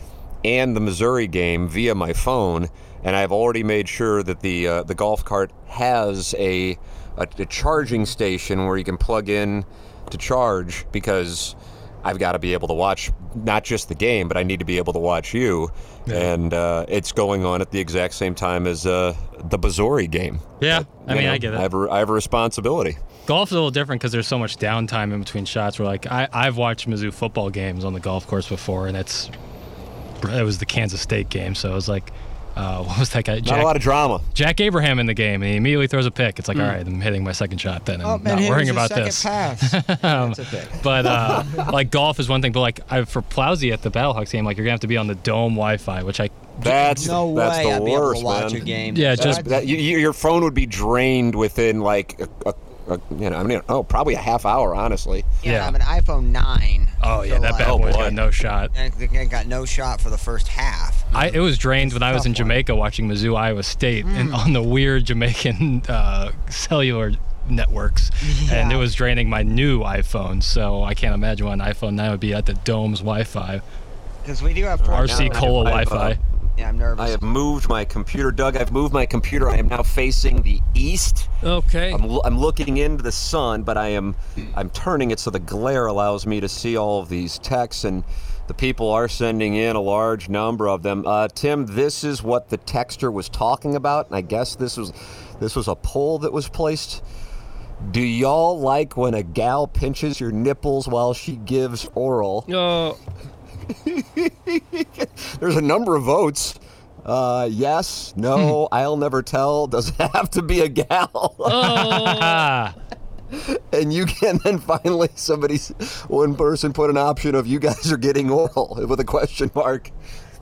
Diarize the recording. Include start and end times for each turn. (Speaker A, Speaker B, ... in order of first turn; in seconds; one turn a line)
Speaker A: 0.4-23.0
Speaker B: 20.6-21.7
Speaker B: 23.3-29.3
Speaker B: 30.2-33.8
Speaker A: 33.5-34.2
Speaker B: 34.3-47.1
Speaker C: 38.0-41.7
Speaker A: 46.6-55.3
Speaker C: 46.9-49.7
Speaker B: 48.9-49.5
Speaker B: 55.4-55.8
Speaker C: 55.4-58.2
Speaker B: 57.0-58.7
Speaker A: 57.6-58.2
Speaker C: 58.7-61.1
Speaker B: 61.1-73.6
Speaker C: 61.8-62.6
Speaker C: 64.0-64.4
Speaker C: 68.2-68.9
Speaker C: 74.2-75.5
Speaker A: 74.8-76.2
Speaker B: 74.9-76.2
Speaker C: 76.6-77.2
Speaker A: 77.0-81.3
Speaker D: 81.4-82.0
Speaker A: 81.9-97.0
Speaker A: 97.8-102.5
Speaker D: 102.5-103.0
Speaker A: 103.8-111.8
Speaker D: 111.5-112.5
Speaker B: 111.5-112.8
Speaker A: 113.3-119.9